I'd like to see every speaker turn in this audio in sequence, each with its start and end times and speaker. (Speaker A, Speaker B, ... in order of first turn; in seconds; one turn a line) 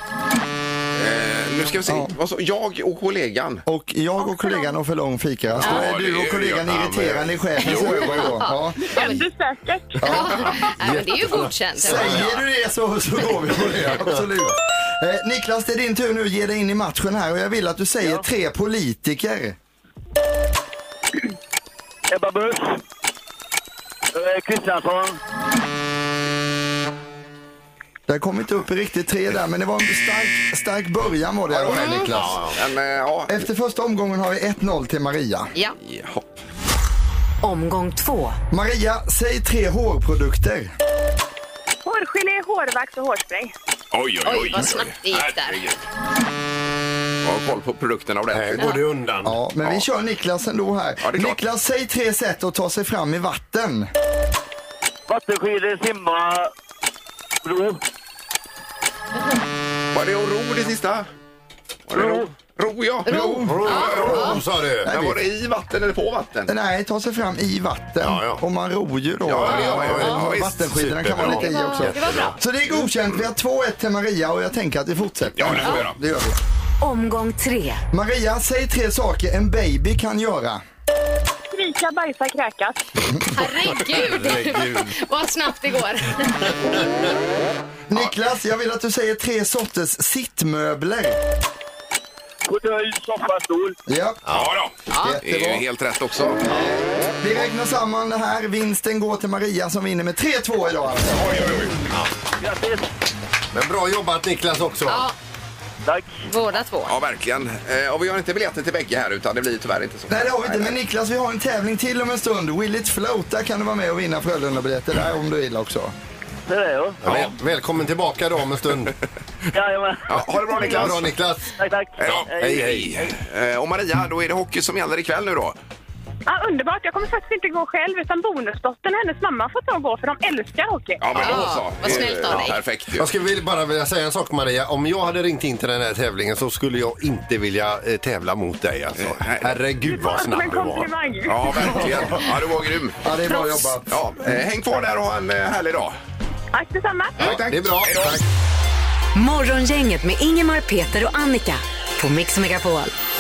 Speaker A: 1.0-3.7
Speaker B: 1.9-2.1
Speaker B: 3.7-9.0
Speaker A: 5.6-8.3
Speaker C: 6.7-7.8
Speaker D: 8.2-9.2
Speaker E: 8.8-10.2
Speaker D: 10.0-12.4
Speaker B: 10.0-10.4
Speaker C: 10.2-12.4
Speaker B: 11.8-19.6
Speaker C: 13.6-14.2
Speaker F: 22.1-22.8
Speaker F: 24.1-25.2
Speaker B: 28.1-32.4
Speaker A: 31.5-31.9
Speaker D: 31.7-32.1
Speaker C: 32.1-32.6
Speaker A: 32.5-33.5
Speaker B: 33.3-35.5
Speaker A: 35.8-36.4
Speaker G: 37.4-38.4
Speaker B: 38.5-40.7
Speaker E: 41.8-43.5
Speaker A: 43.9-45.8
Speaker D: 44.3-45.6
Speaker A: 47.2-48.8
Speaker C: 48.3-49.4
Speaker B: 49.2-53.9
Speaker A: 51.0-51.4
Speaker F: 55.1-56.5
Speaker F: 57.4-57.8
Speaker A: 59.9-61.1
Speaker A: 61.9-66.5
Speaker F: 61.9-62.3
Speaker D: 63.1-64.4
Speaker B: 63.1-65.2
Speaker C: 63.1-65.0
Speaker B: 66.5-76.4
Speaker C: 68.0-68.4
Speaker A: 69.2-70.6
Speaker C: 69.5-72.4
Speaker D: 71.5-72.4
Speaker A: 75.4-76.0
Speaker G: 76.8-77.8
Speaker B: 77.9-80.6
Speaker E: 81.5-82.8
Speaker D: 83.3-86.6
Speaker C: 83.8-85.0
Speaker C: 86.4-87.1
Speaker B: 87.9-91.2
Speaker F: 92.5-93.8
Speaker B: 93.9-94.2
Speaker C: 94.3-94.5
Speaker A: 94.3-96.5
Speaker D: 94.9-95.2
Speaker B: 94.9-95.7
Speaker B: 96.4-101.6
Speaker A: 101.1-101.8
Speaker F: 102.4-102.8
Speaker C: 103.5-105.1
Speaker D: 104.9-105.1
Speaker D: 106.3-107.0
Speaker A: 106.9-110.8
Speaker B: 110.1-115.9
Speaker F: 116.5-117.0
Speaker C: 117.0-119.0
Speaker A: 117.1-117.3
Speaker F: 119.5-120.7
Speaker A: 120.1-121.1
Speaker C: 120.6-121.6
Speaker F: 121.6-123.1
Speaker A: 122.0-125.6
Speaker C: 122.4-123.0
Speaker E: 126.3-131.0
Speaker A: 131.0-133.1
Speaker D: 131.2-132.6
Speaker C: 132.1-140.9
Speaker A: 139.0-139.6
Speaker E: 139.8-141.8
Speaker A: 141.3-145.9
Speaker B: 143.0-144.4
Speaker E: 146.5-147.3
Speaker A: 147.2-148.2
Speaker C: 147.2-148.2
Speaker G: 149.1-152.9